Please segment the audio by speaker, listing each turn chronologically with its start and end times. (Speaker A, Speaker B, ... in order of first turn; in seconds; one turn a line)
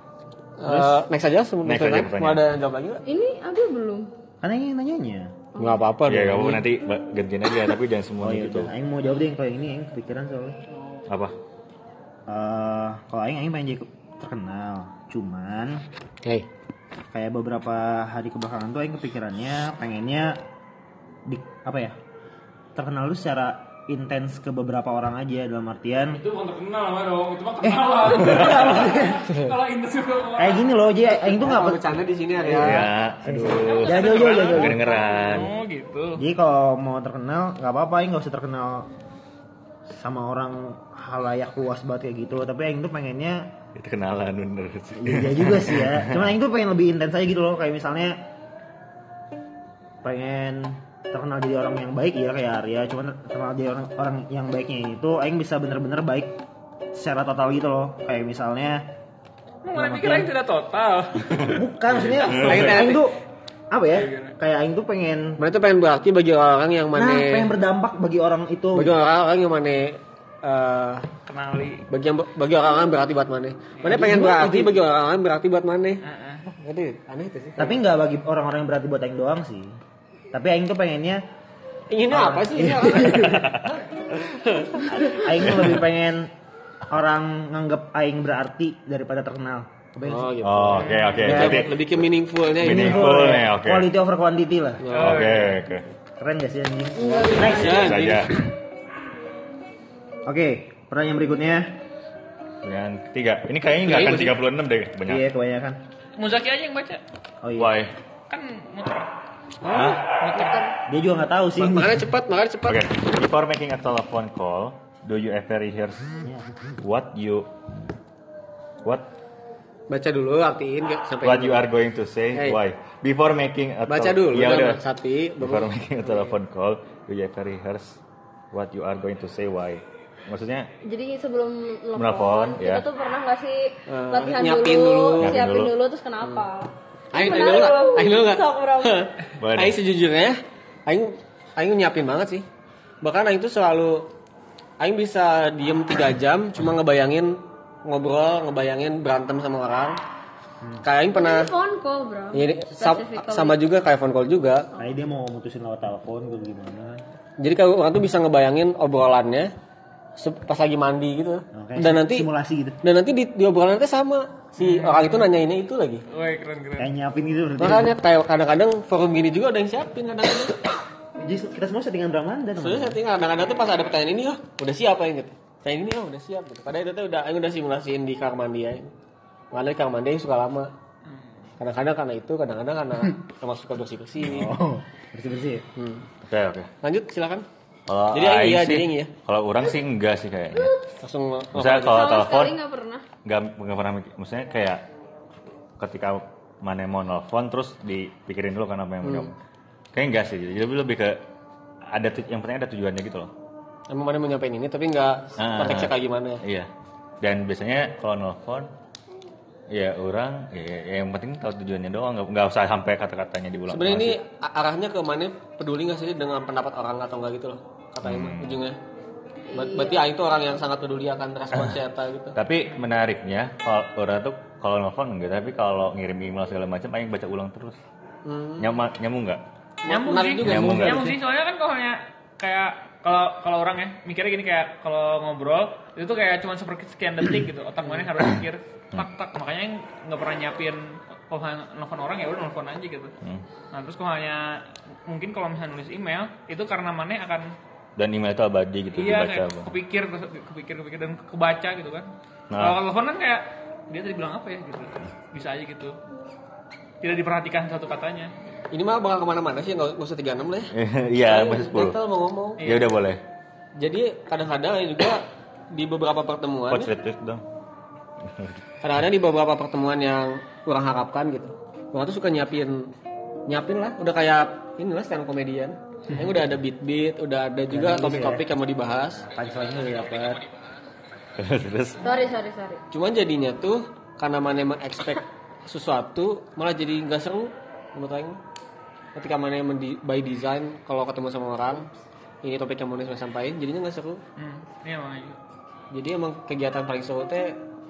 Speaker A: 0.6-3.0
Speaker B: 0.7-0.9
Speaker C: 1.6-2.4
Speaker D: 3.0-4.1
Speaker B: 4.4-5.3
Speaker D: 5.5-5.8
Speaker A: 5.6-6.7
Speaker C: 6.0-8.7
Speaker B: 8.2-10.6
Speaker E: 10.7-11.0
Speaker C: 11.1-11.3
Speaker B: 12.3-15.8
Speaker B: 17.1-20.4
Speaker B: 21.2-21.9
Speaker B: 22.7-26.2
Speaker E: 26.1-30.6
Speaker B: 27.6-29.4
Speaker B: 30.4-34.9
Speaker A: 31.2-32.9
Speaker C: 32.5-35.5
Speaker E: 33.6-36.2
Speaker B: 36.1-38.9
Speaker B: 39.9-43.5
Speaker C: 43.7-46.3
Speaker B: 45.0-48.2
Speaker B: 50.0-56.4
Speaker B: 56.9-58.9
Speaker E: 59.6-63.0
Speaker B: 59.7-60.3
Speaker B: 61.4-63.2
Speaker C: 62.3-62.6
Speaker A: 62.3-63.0
Speaker B: 63.7-65.4
Speaker E: 63.9-64.3
Speaker A: 65.4-67.5
Speaker B: 66.9-68.9
Speaker A: 68.7-71.1
Speaker E: 71.3-71.8
Speaker A: 71.9-77.8
Speaker B: 73.8-74.8
Speaker E: 76.0-76.4
Speaker B: 77.6-79.7
Speaker B: 80.3-81.2
Speaker A: 81.9-85.7
Speaker B: 82.1-83.5
Speaker C: 83.3-83.7
Speaker B: 84.9-86.3
Speaker B: 86.9-90.7
Speaker A: 90.0-93.5
Speaker C: 90.4-92.0
Speaker E: 90.7-91.3
Speaker B: 91.2-91.8
Speaker C: 92.6-93.9
Speaker B: 92.6-94.8
Speaker A: 94.8-95.5
Speaker E: 94.9-95.6
Speaker C: 94.9-95.8
Speaker B: 96.2-98.0
Speaker D: 97.0-97.9
Speaker A: 97.1-98.3
Speaker C: 97.4-98.3
Speaker B: 100.2-101.7
Speaker C: 102.6-105.2
Speaker A: 103.9-104.2
Speaker B: 105.0-105.8
Speaker E: 106.2-107.0
Speaker B: 107.4-107.8
Speaker C: 107.5-107.9
Speaker E: 108.3-109.1
Speaker A: 109.6-110.0
Speaker C: 109.7-110.0
Speaker E: 110.2-110.7
Speaker B: 110.9-112.1
Speaker A: 111.6-112.9
Speaker C: 112.6-116.1
Speaker C: 116.8-117.5
Speaker A: 119.9-121.7
Speaker C: 121.2-124.8
Speaker A: 122.3-122.6
Speaker A: 123.8-126.3
Speaker C: 125.4-128.0
Speaker C: 128.5-130.7
Speaker D: 130.8-139.0
Speaker C: 131.9-132.8
Speaker A: 133.9-135.4
Speaker C: 135.2-135.7
Speaker A: 137.1-142.4
Speaker C: 139.4-139.8
Speaker A: 143.0-144.1
Speaker A: 144.8-150.0
Speaker A: 150.8-151.5
Speaker D: 151.1-153.6
Speaker A: 152.3-154.7
Speaker B: 154.8-157.0
Speaker A: 157.4-159.5
Speaker A: 160.2-162.3
Speaker B: 161.5-162.8
Speaker A: 162.8-166.0
Speaker E: 164.6-165.3
Speaker E: 166.1-166.9
Speaker B: 166.8-168.0
Speaker A: 167.6-170.6
Speaker B: 171.2-173.0
Speaker A: 172.6-178.9
Speaker A: 179.5-180.7
Speaker E: 181.1-181.5
Speaker A: 181.6-184.5
Speaker B: 184.2-185.7
Speaker A: 185.8-186.1
Speaker C: 186.3-186.7
Speaker A: 186.8-187.4
Speaker C: 187.9-190.7
Speaker A: 188.1-189.1
Speaker A: 191.0-192.1
Speaker C: 191.5-192.6
Speaker D: 191.8-193.0
Speaker C: 193.2-194.8
Speaker C: 195.8-199.3
Speaker A: 199.0-199.3
Speaker C: 199.9-201.2
Speaker C: 201.9-203.3
Speaker A: 203.9-206.4
Speaker C: 205.4-206.7
Speaker C: 207.2-208.7
Speaker C: 209.7-214.2
Speaker A: 213.7-218.8
Speaker C: 218.0-218.6
Speaker D: 219.5-220.0
Speaker A: 219.5-222.3
Speaker C: 222.3-227.8
Speaker A: 228.2-228.8
Speaker C: 228.6-229.4
Speaker A: 229.8-231.2
Speaker E: 229.8-243.1
Speaker C: 230.4-231.1
Speaker A: 237.8-238.1
Speaker E: 243.7-247.6
Speaker C: 248.0-249.7
Speaker E: 248.9-256.0
Speaker C: 252.5-252.8
Speaker E: 257.0-258.6
Speaker A: 258.7-262.6
Speaker C: 260.7-262.0
Speaker E: 262.6-262.9
Speaker C: 262.6-263.2
Speaker A: 263.8-266.9
Speaker C: 266.7-267.4
Speaker A: 268.8-272.9
Speaker A: 273.5-279.2
Speaker B: 277.7-278.5
Speaker B: 279.2-280.4
Speaker C: 281.4-282.0
Speaker D: 282.0-282.8
Speaker A: 282.9-288.4
Speaker A: 289.1-291.9
Speaker A: 292.4-294.2
Speaker E: 294.4-295.4
Speaker A: 295.9-297.6